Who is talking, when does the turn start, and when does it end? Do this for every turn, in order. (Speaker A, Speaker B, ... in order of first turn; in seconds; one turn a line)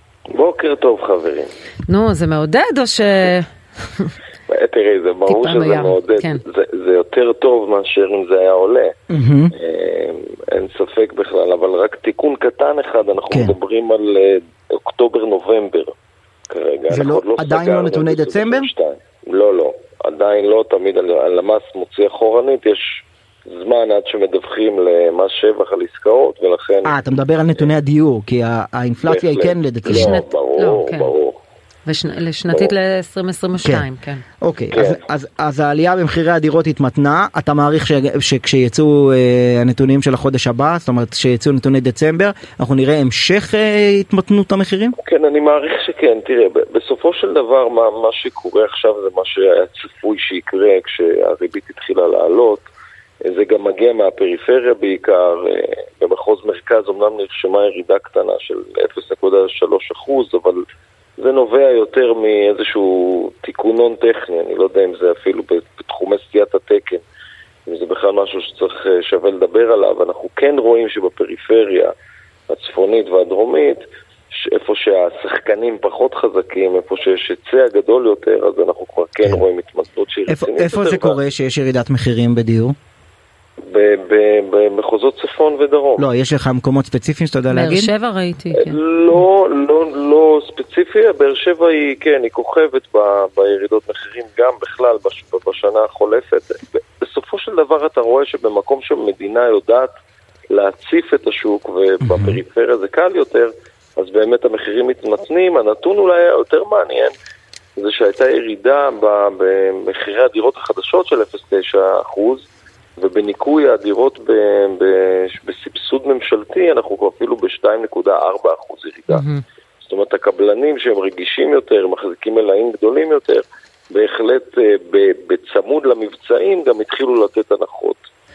Speaker A: 0.3-1.5
Speaker B: 1.9-4.1
Speaker A: 4.5-8.9
Speaker B: 5.3-6.4
Speaker C: 9.1-9.5
Speaker A: 9.5-15.9
Speaker A: 16.5-26.9
Speaker C: 16.9-18.7
Speaker C: 26.8-30.2
Speaker A: 29.0-31.4
Speaker B: 29.9-31.1
Speaker B: 31.9-34.2
Speaker C: 34.4-45.0
Speaker A: 34.7-35.0
Speaker A: 45.0-52.7
Speaker A: 53.2-60.6
Speaker A: 61.2-67.0
Speaker A: 67.7-71.9
Speaker A: 72.5-81.2
Speaker C: 80.3-82.8
Speaker A: 83.6-86.1
Speaker C: 86.0-87.9
Speaker B: 87.5-88.8
Speaker A: 88.5-99.9
Speaker A: 100.5-107.1
Speaker C: 102.0-102.4
Speaker A: 107.8-112.5
Speaker A: 113.0-119.2
Speaker B: 119.1-119.4
Speaker A: 119.8-128.0